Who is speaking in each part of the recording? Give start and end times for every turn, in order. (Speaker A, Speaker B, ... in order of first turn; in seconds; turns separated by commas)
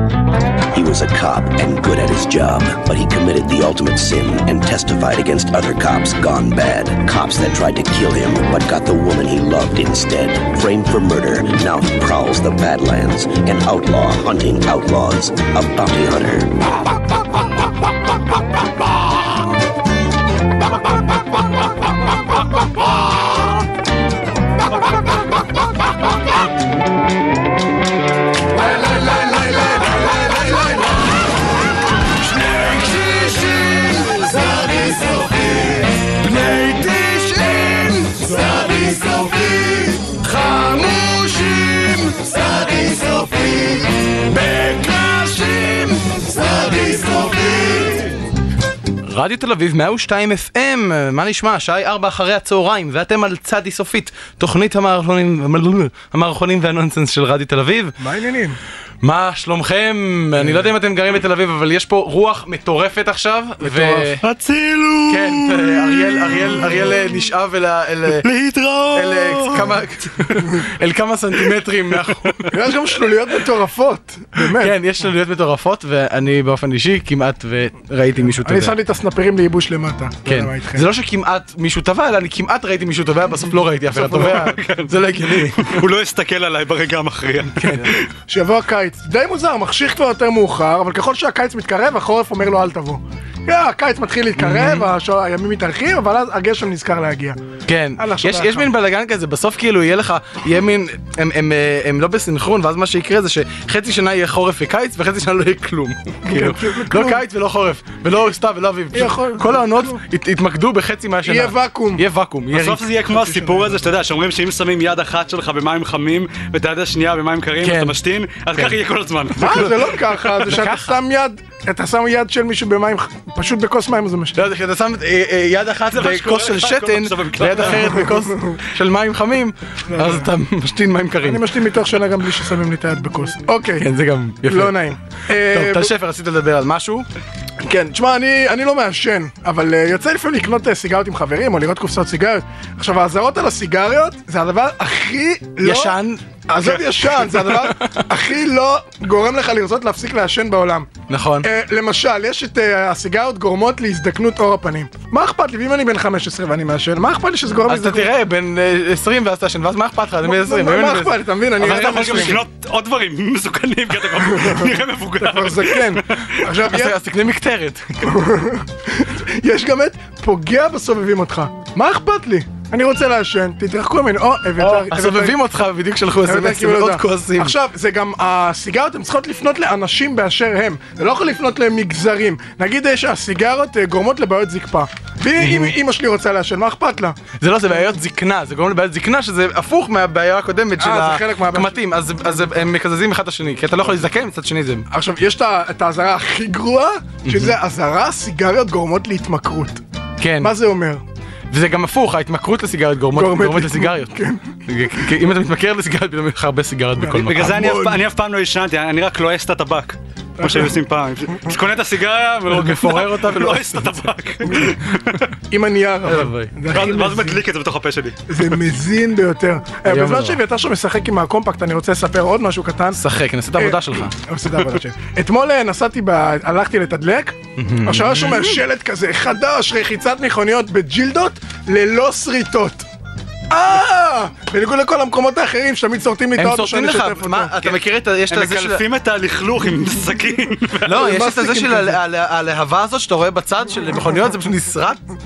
Speaker A: 0.7-16.6, Speaker B: 32.5-34.1, Speaker B: 36.2-39.5, Speaker B: 40.5-43.2, Speaker B: 44.4-46.0, Speaker C: 46.7-47.1, Speaker D: 49.1-58.0, Speaker C: 58.0-58.6, Speaker D: 59.0-64.2, Speaker C: 60.4-60.7, Speaker C: 63.6-64.1, Speaker B: 64.2-67.1, Speaker D: 65.1-68.2, Speaker B: 68.2-70.4, Speaker D: 68.9-72.5, Speaker C: 72.5-74.8, Speaker D: 74.6-78.8, Speaker C: 78.3-80.8, Speaker D: 80.2-85.8, Speaker C: 84.1-84.4, Speaker B: 84.1-88.0, Speaker D: 87.6-88.0, Speaker C: 88.3-97.4, Speaker D: 94.4-94.9, Speaker D: 97.7-112.8, Speaker C: 98.0-98.7, Speaker C: 106.3-107.2, Speaker C: 108.9-110.0, Speaker C: 111.2-112.0, Speaker B: 112.5-120.5, Speaker C: 113.1-113.7, Speaker D: 117.6-118.0, Speaker C: 119.3-124.4, Speaker D: 119.4-119.7, Speaker D: 120.4-120.9, Speaker D: 124.3-131.4, Speaker B: 125.9-128.1, Speaker C: 128.0-128.6, Speaker C: 129.9-130.2, Speaker C: 131.2-133.9, Speaker D: 133.8-134.8, Speaker C: 134.5-135.9, Speaker D: 135.5-137.1, Speaker C: 137.7-150.9, Speaker D: 145.6-147.8, Speaker D: 151.1-151.5, Speaker C: 151.4-158.1, Speaker D: 157.7-162.4, Speaker C: 160.2-162.4, Speaker B: 161.6-166.3, Speaker C: 164.1-167.0, Speaker D: 166.7-167.8, Speaker C: 168.1-175.4, Speaker D: 174.6-177.5, Speaker C: 176.3-187.2, Speaker D: 185.4-185.8, Speaker D: 187.4-194.9, Speaker C: 190.8-191.8, Speaker C: 194.9-199.8, Speaker D: 197.3-197.6, Speaker D: 200.2-200.5, Speaker C: 200.4-201.0, Speaker D: 201.5-207.5, Speaker C: 203.1-204.5, Speaker C: 207.0-208.0, Speaker B: 207.2-215.3, Speaker C: 210.4-210.7, Speaker D: 212.5-214.0, Speaker C: 215.5-217.4, Speaker D: 216.1-216.5, Speaker B: 216.7-218.6, Speaker C: 218.3-223.0, Speaker D: 219.9-220.4, Speaker D: 222.9-224.1, Speaker C: 223.6-232.9, Speaker D: 227.6-228.6, Speaker C: 233.5-237.5, Speaker D: 236.4-238.8, Speaker B: 238.3-240.9, Speaker D: 240.8-245.0, Speaker C: 240.9-242.0